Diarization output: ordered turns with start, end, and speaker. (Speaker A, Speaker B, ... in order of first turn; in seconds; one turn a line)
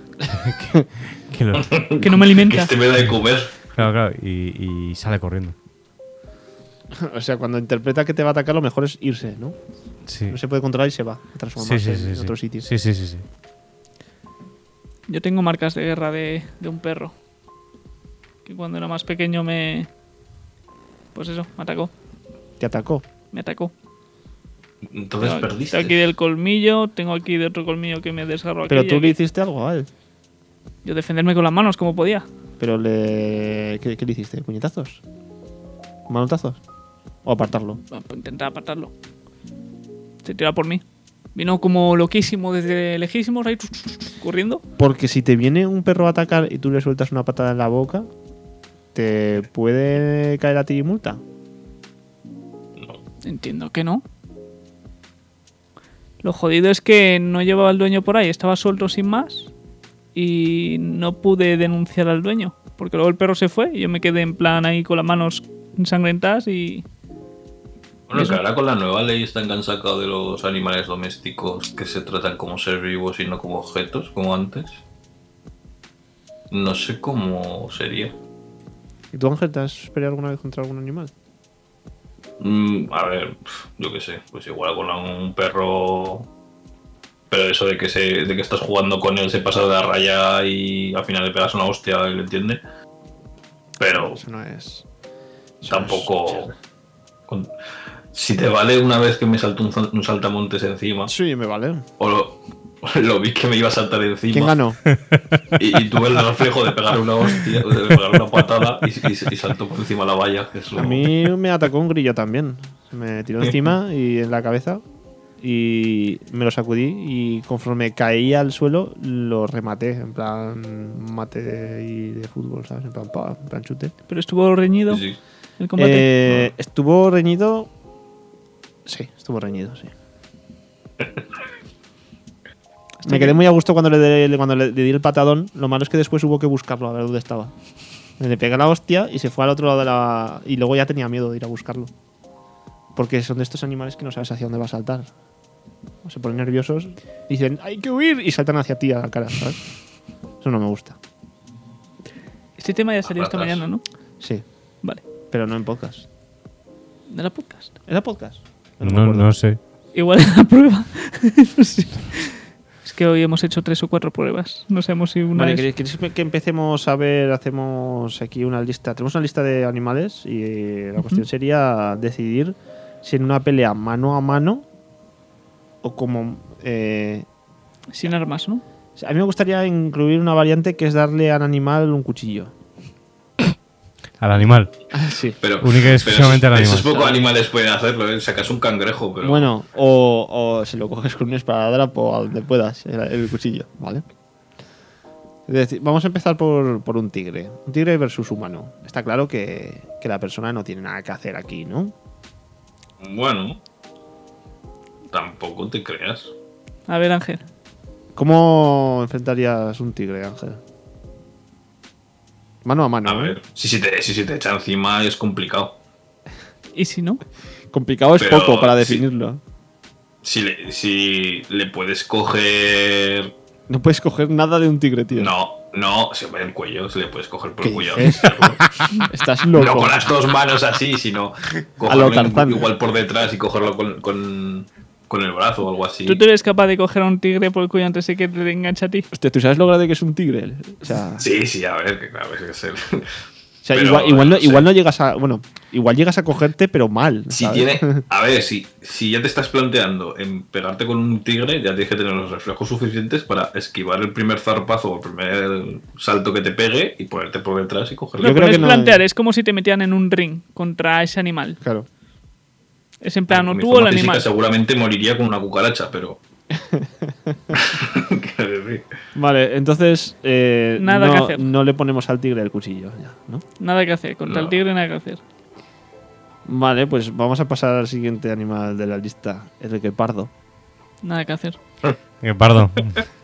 Speaker A: 0.2-1.7
Speaker B: 1.5-3.6
Speaker C: 2.0-2.7
Speaker A: 3.7-5.6
Speaker D: 6.9-9.6
Speaker A: 10.1-10.4
Speaker D: 10.3-12.7
Speaker A: 11.6-13.2
Speaker C: 15.1-17.1
Speaker C: 18.4-19.9
Speaker C: 21.1-21.9
Speaker D: 22.6-23.0
Speaker C: 23.3-23.7
Speaker B: 24.8-26.1
Speaker C: 25.2-29.2
Speaker D: 28.7-29.9
Speaker C: 30.8-32.3
Speaker D: 32.6-35.0
Speaker D: 36.1-36.6
Speaker D: 37.2-37.8
Speaker C: 37.9-38.9
Speaker C: 40.2-40.8
Speaker C: 41.4-44.6
Speaker D: 44.8-48.1
Speaker D: 48.9-51.2
Speaker C: 53.2-54.0
Speaker C: 56.2-59.5
Speaker C: 60.1-66.8
Speaker B: 68.1-74.8
Speaker C: 68.1-68.4
Speaker B: 76.5-78.2
Speaker D: 79.1-81.1
Speaker B: 82.4-86.3
Speaker B: 87.3-92.6
Speaker B: 93.8-94.2
Speaker D: 93.9-94.8
Speaker D: 95.6-96.3
Speaker B: 95.7-96.5
Speaker B: 98.1-101.1
Speaker D: 101.1-101.8
Speaker B: 102.0-104.6
Speaker D: 104.3-104.8
Speaker A: 104.9-105.4
Speaker B: 105.5-111.3
Speaker D: 110.8-114.8
Speaker D: 115.4-123.9
Speaker C: 124.1-125.0
Speaker B: 124.9-125.2
Speaker C: 125.6-126.4
Speaker D: 125.8-127.7
Speaker D: 128.9-129.9
Speaker C: 133.0-133.4
Speaker D: 133.1-137.5
Speaker D: 138.2-141.9
Speaker D: 143.0-145.1
Speaker D: 146.0-149.6
Speaker D: 150.4-151.0
Speaker C: 152.6-153.8
Speaker B: 153.1-153.7
Speaker D: 155.3-156.1
Speaker C: 157.1-157.8
Speaker D: 157.9-159.3
Speaker A: 158.8-159.6
Speaker C: 159.9-165.7
Speaker D: 165.3-174.7
Speaker D: 175.8-177.3
Speaker C: 177.9-178.6
Speaker D: 179.0-182.5
Speaker A: 184.2-184.7
Speaker D: 184.9-185.4
Speaker B: 185.4-189.5
Speaker A: 185.6-187.1
Speaker D: 186.9-187.2
Speaker D: 189.2-194.1
Speaker D: 195.5-201.9
Speaker B: 203.0-203.6
Speaker B: 205.1-206.3
Speaker C: 206.9-207.4
Speaker D: 208.2-210.6
Speaker D: 212.7-213.4
Speaker B: 213.1-215.8
Speaker C: 216.7-217.2
Speaker D: 217.7-219.4
Speaker B: 218.2-219.0
Speaker B: 220.2-223.3
Speaker D: 223.7-225.3
Speaker B: 225.1-228.7
Speaker D: 227.6-230.0
Speaker B: 229.5-236.2
Speaker D: 231.8-232.7
Speaker C: 236.1-239.1
Speaker D: 239.1-241.2
Speaker B: 241.2-243.2
Speaker D: 243.6-248.0
Speaker B: 243.7-244.7
Speaker B: 247.3-258.6
Speaker C: 258.2-261.6
Speaker D: 258.2-259.0
Speaker D: 261.6-261.9
Speaker C: 263.0-264.3
Speaker B: 263.3-266.2
Speaker D: 266.5-267.4
Speaker B: 267.5-268.9
Speaker D: 269.1-273.4
Speaker C: 270.8-271.5
Speaker C: 273.6-275.2
Speaker B: 274.3-274.6
Speaker D: 276.4-280.3
Speaker C: 281.0-281.6
Speaker A: 282.2-283.1